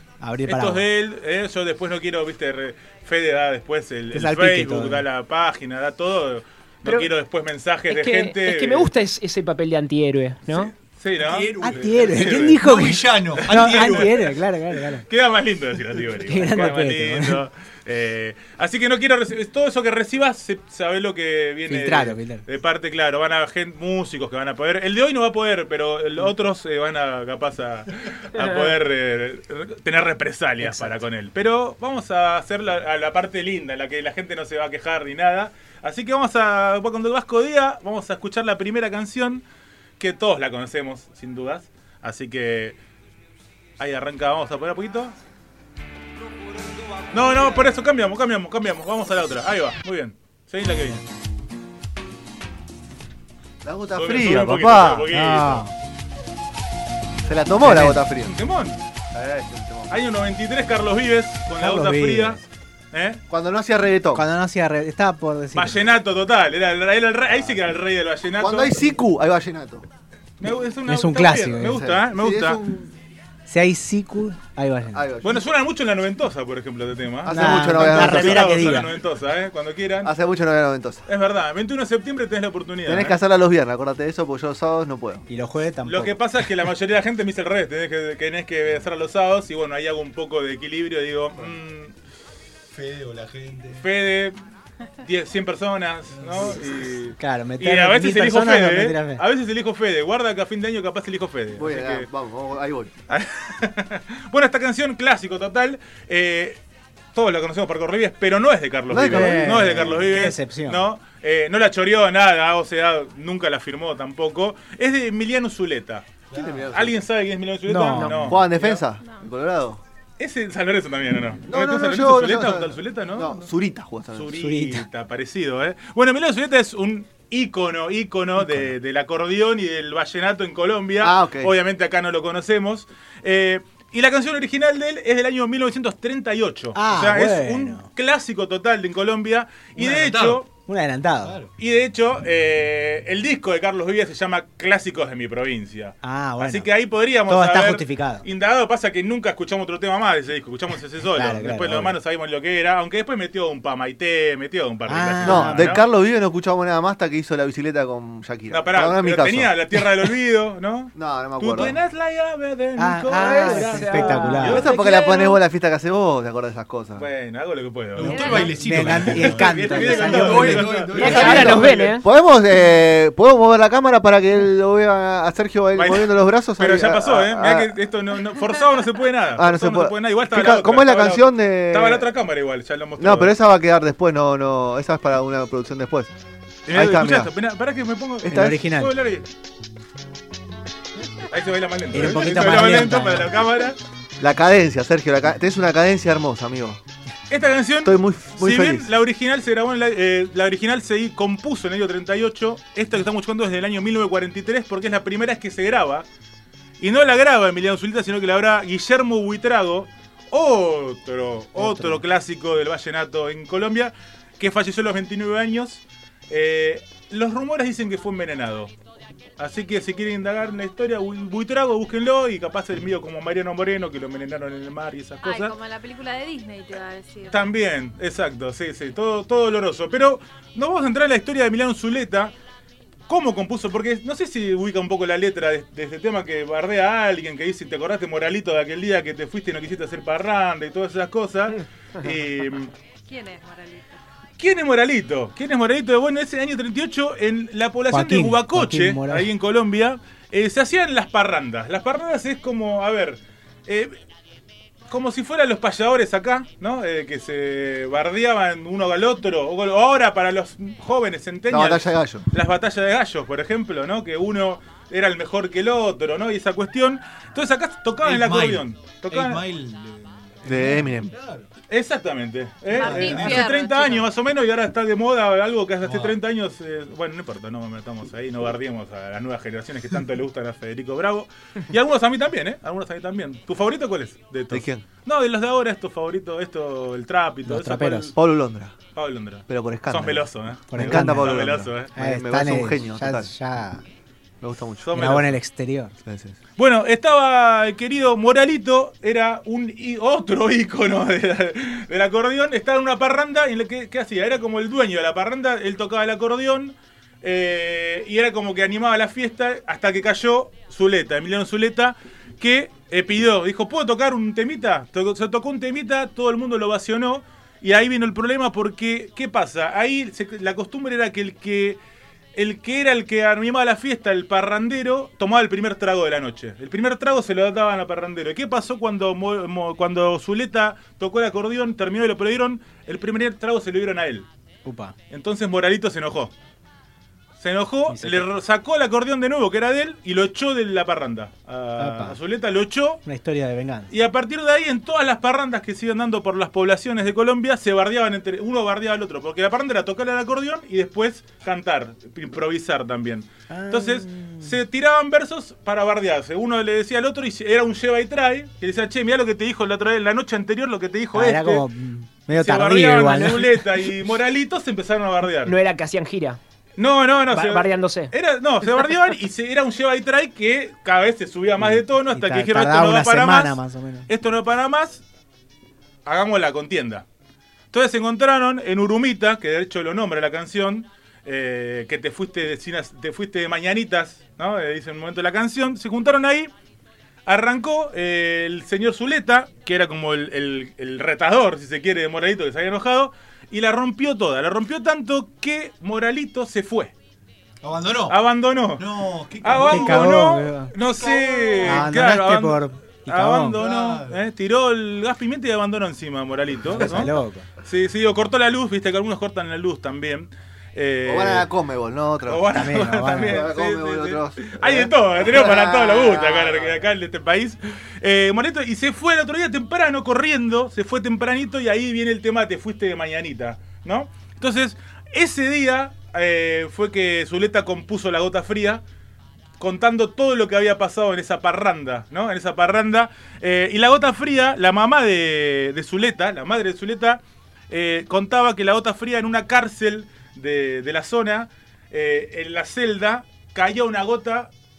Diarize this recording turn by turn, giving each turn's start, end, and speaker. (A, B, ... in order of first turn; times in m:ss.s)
0:00.2-0:00.8 A
0:00.4-0:08.9 B
0:04.1-0:05.0 A
0:07.9-0:10.7 C
0:10.5-0:12.7 B
0:11.2-0:14.3 D
0:11.6-0:15.0 A
0:13.4-0:14.4 B
0:15.1-0:39.4 B
0:16.2-0:17.4 A
0:21.7-0:22.4 A
0:30.6-0:31.0 A
0:40.0-0:42.8 B
0:43.8-0:45.2 B
0:47.1-0:51.0 B
0:53.6-0:55.1 E
0:54.0-0:55.7 B
0:55.1-0:55.7 A
0:57.2-0:58.4 E
0:57.6-0:58.0 A
0:58.2-0:58.8 B
0:59.1-0:59.9 E
0:59.9-1:02.4 B
1:01.6-1:02.4 A
1:02.9-1:03.2 B
1:03.3-1:04.3 E
1:04.1-1:05.8 A
1:05.5-1:08.9 B
1:08.4-1:09.8 E
1:10.4-1:12.6 B
1:10.9-1:11.8 A
1:11.6-1:12.9 E
1:13.5-1:15.0 A
1:14.9-1:15.4 E
1:15.2-1:20.1 B
1:17.2-1:18.9 E
1:17.3-1:18.9 A
1:20.0-1:21.0 E
1:21.1-1:23.2 B
1:22.9-1:25.2 E
1:25.3-1:26.2 A
1:25.8-1:31.9 B
1:32.7-1:33.9 D
1:33.8-1:34.4 B
1:35.0-1:42.1 B
1:36.1-1:36.7 D
1:37.2-1:39.2 A
1:41.6-1:42.9 E
1:43.1-1:46.6 B
1:47.2-1:56.1 B
1:48.9-1:50.2 E
1:48.9-1:50.9 A
1:56.3-1:56.7 D
1:56.3-1:57.0 E
1:56.7-1:58.8 B
1:57.7-1:58.4 A
1:58.2-1:59.8 E
2:00.2-2:03.4 B
2:01.5-2:04.3 E
2:04.2-2:20.5 B
2:04.3-2:04.8 A
2:11.0-2:11.5 E
2:16.7-2:17.9 A
2:19.8-2:20.4 D
2:20.7-2:21.4 A
2:21.2-2:21.5 D
2:21.6-2:35.8 B
2:26.0-2:26.7 A
2:27.3-2:28.2 A
2:31.1-2:32.0 A
2:34.9-2:35.8 A
2:35.2-2:39.5 E
2:38.5-2:44.8 B
2:41.0-2:41.8 E
2:42.8-2:44.6 A
2:43.2-2:45.4 C
2:44.4-2:47.1 E
2:47.0-2:51.9 B
2:48.0-2:51.7 D
2:48.0-2:48.5 F
2:48.4-2:50.7 A
2:49.7-2:50.1 F
2:50.9-2:52.0 C
2:51.0-2:57.7 E
2:55.8-3:03.3 B
2:59.4-3:02.1 E
3:03.0-3:06.1 E
3:06.7-3:09.3 B
3:06.7-3:07.3 E
3:08.2-3:08.6 E
3:08.2-3:09.0 A
3:11.3-3:13.8 B
3:11.9-3:13.4 A
3:14.2-3:16.8 E
3:17.3-3:26.1 B
3:17.8-3:18.9 E
3:26.8-3:38.7 B
3:31.6-3:32.0 A
3:39.4-3:45.6 B
3:45.2-3:47.5 F
3:47.3-3:52.3 B
3:53.1-4:02.7 B
4:03.1-4:03.9 F
4:04.4-4:13.9 B
4:07.9-4:09.3 A
4:14.9-4:29.4 B
4:21.5-4:22.2 E
4:28.0-4:31.5 D
4:30.5-4:31.1 E
4:31.7-4:48.2 B
4:32.7-4:33.9 F
4:32.7-4:34.0 D
4:35.8-4:36.2 D
4:44.5-4:44.8 E
4:47.5-4:48.1 A
4:48.2-4:48.8 E
4:49.0-4:52.0 B
4:49.5-4:53.3 E
4:50.7-4:53.8 A
4:54.4-4:55.2 E
4:54.8-4:55.4 B
4:54.9-4:55.9 A
4:56.0-4:56.4 E
4:56.6-5:21.8 B
5:22.4-5:34.2 B
5:34.6-5:34.9 A
5:35.1-5:36.3 B
5:37.4-5:43.0 B
5:37.9-5:38.3 A
5:41.8-5:42.2 A
5:43.1-5:43.9 A
5:43.9-6:01.6 B
5:53.5-5:54.6 A
6:01.1-6:03.8 A
6:02.3-6:05.6 B
6:05.4-6:06.4 C
6:06.8-6:15.0 B
6:07.3-6:08.1 C
6:11.6-6:14.1 A
6:16.1-6:17.0 B
6:17.7-6:26.5 B
6:27.2-6:36.9 B
6:37.6-6:38.2 D
6:38.1-6:38.9 B
6:38.8-6:40.2 D
6:39.4-6:51.5 B
6:39.6-6:40.7 A
6:41.6-6:43.6 A
6:43.6-6:44.2 D
6:46.7-6:47.5 A
6:46.8-6:47.1 E
6:51.0-6:56.8 E
6:52.2-7:08.8 B
6:52.5-6:53.5 A
7:09.6-7:24.5 B